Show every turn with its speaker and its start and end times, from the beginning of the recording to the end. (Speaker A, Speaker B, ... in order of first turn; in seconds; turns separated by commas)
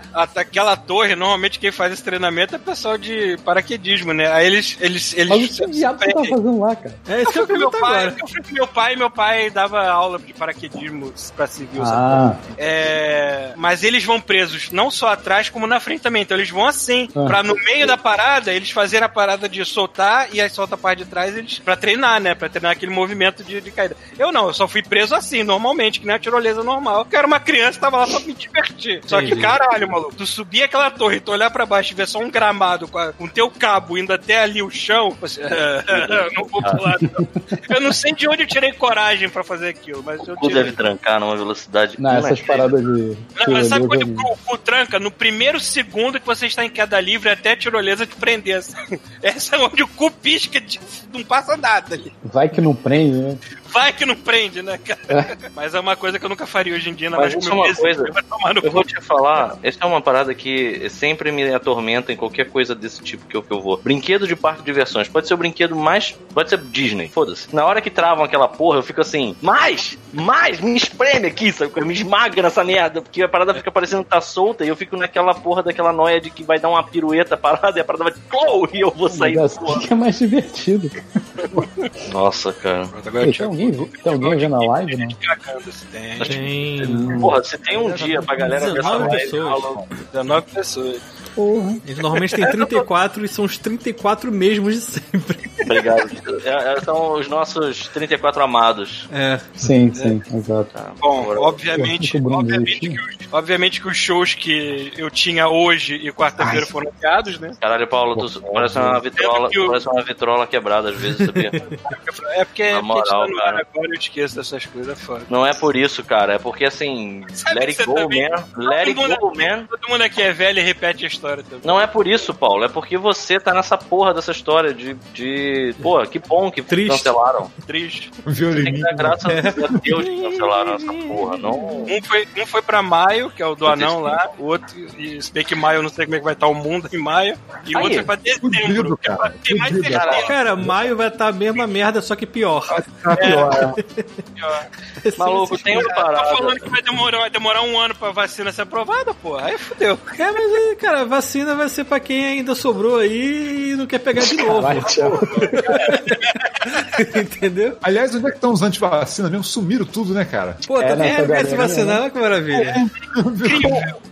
Speaker A: 0.1-6.4, Speaker B: 5.3-7.0, Speaker C: 7.1-8.2, Speaker A: 7.2-40.8, Speaker B: 11.8-12.4, Speaker C: 29.1-29.5, Speaker D: 35.9-36.9, Speaker D: 40.2-42.8, Speaker B: 42.0-44.3, Speaker A: 43.4-52.1, Speaker B: 52.2-53.4, Speaker A: 53.7-58.9, Speaker D: 57.1-79.9, Speaker B: 79.1-81.0, Speaker D: 82.0-82.9, Speaker A: 82.9-86.6, Speaker B: 83.2-85.2, Speaker D: 86.2-86.5, Speaker C: 86.3-87.2, Speaker B: 86.8-87.3, Speaker D: 87.1-89.8, Speaker C: 88.2-89.8, Speaker A: 90.1-91.0, Speaker B: 91.4-91.8, Speaker C: 91.8-95.7, Speaker A: 92.0-92.9, Speaker D: 95.7-99.1, Speaker C: 99.1-99.5, Speaker B: 99.6-100.7, Speaker A: 99.9-100.2, Speaker D: 100.7-101.6, Speaker A: 101.0-107.6, Speaker B: 101.7-103.0, Speaker B: 106.4-106.7, Speaker D: 107.6-111.6, Speaker A: 109.1-109.8, Speaker A: 111.6-115.3, Speaker D: 112.7-113.6, Speaker D: 115.3-119.7, Speaker A: 117.3-121.9, Speaker D: 121.6-127.5, Speaker C: 126.7-127.1, Speaker A: 127.7-128.1, Speaker E: 128.2-129.8, Speaker D: 128.6-132.0, Speaker C: 129.3-131.8, Speaker A: 131.9-140.3, Speaker D: 133.6-134.3, Speaker D: 137.7-138.1, Speaker E: 138.4-140.8, Speaker D: 139.9-140.3, Speaker C: 140.2-142.8, Speaker E: 142.7-143.8, Speaker A: 143.1-143.5, Speaker C: 143.6-144.2, Speaker A: 144.4-144.7, Speaker C: 145.0-145.9, Speaker D: 145.2-146.7, Speaker A: 145.7-150.6, Speaker C: 150.2-155.2, Speaker B: 154.3-155.9, Speaker A: 155.5-156.8, Speaker C: 156.8-157.8, Speaker E: 157.8-160.6, Speaker C: 160.6-162.8, Speaker B: 160.8-162.0, Speaker A: 162.5-164.0, Speaker E: 163.2-163.8